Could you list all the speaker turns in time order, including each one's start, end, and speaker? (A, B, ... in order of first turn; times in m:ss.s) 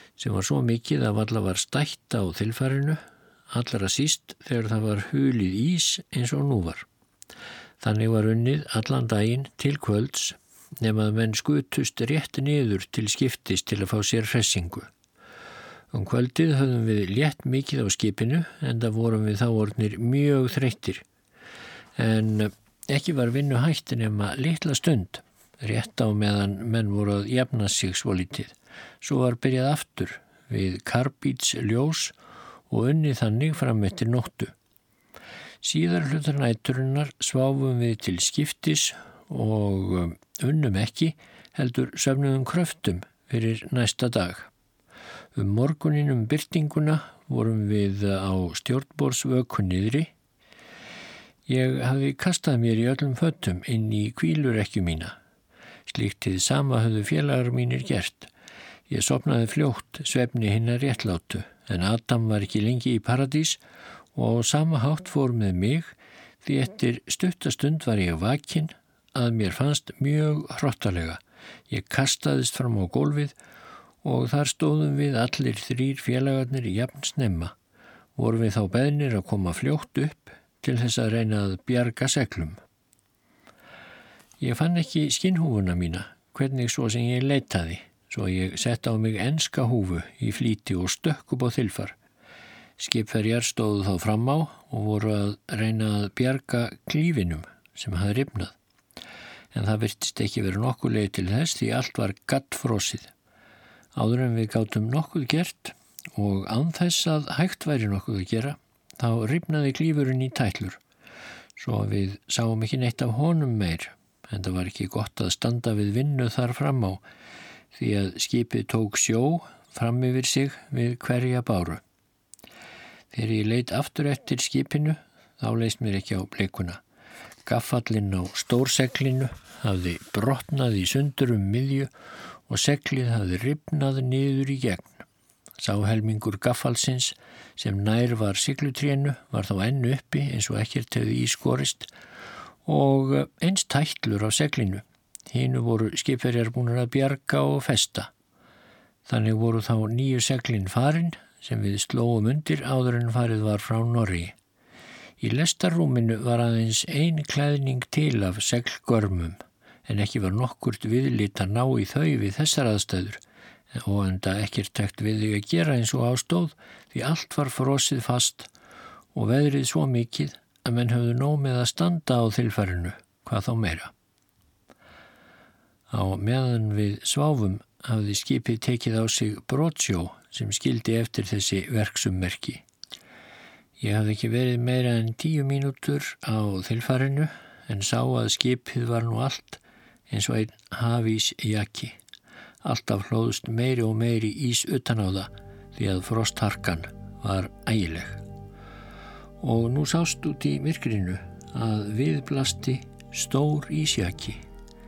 0:00.2-0:06.9 A
0:07.8-0:14.9 A
0:15.9-0:21.0 A
0:22.0-0:32.2 A
0:32.7-0:34.5 A
0:35.6-0:44.5 A
0:45.4-0:50.1 A
0:51.5-0:55.2 A
0:55.9-0:58.3 A
0:58.9-1:03.6 A
1:04.1-1:13.4 A
1:14.0-1:17.5 A
1:18.2-1:22.6 A
1:24.4-1:32.0 A
1:32.8-1:38.6 A
1:39.5-1:43.1 A
1:44.0-1:50.8 A
1:51.6-1:57.0 A
1:57.7-2:01.8 A
2:03.1-2:06.8 A
2:07.4-2:11.9 A
2:12.5-2:15.1 A
2:15.6-2:21.9 A
2:22.6-2:28.1 A
2:29.1-2:34.4 A
2:35.2-2:43.2 A
2:43.7-2:48.5 A
2:49.1-2:53.9 A
2:55.9-3:02.6 A
3:03.8-3:12.0 A
3:12.6-3:18.2 A
3:19.4-3:24.4 A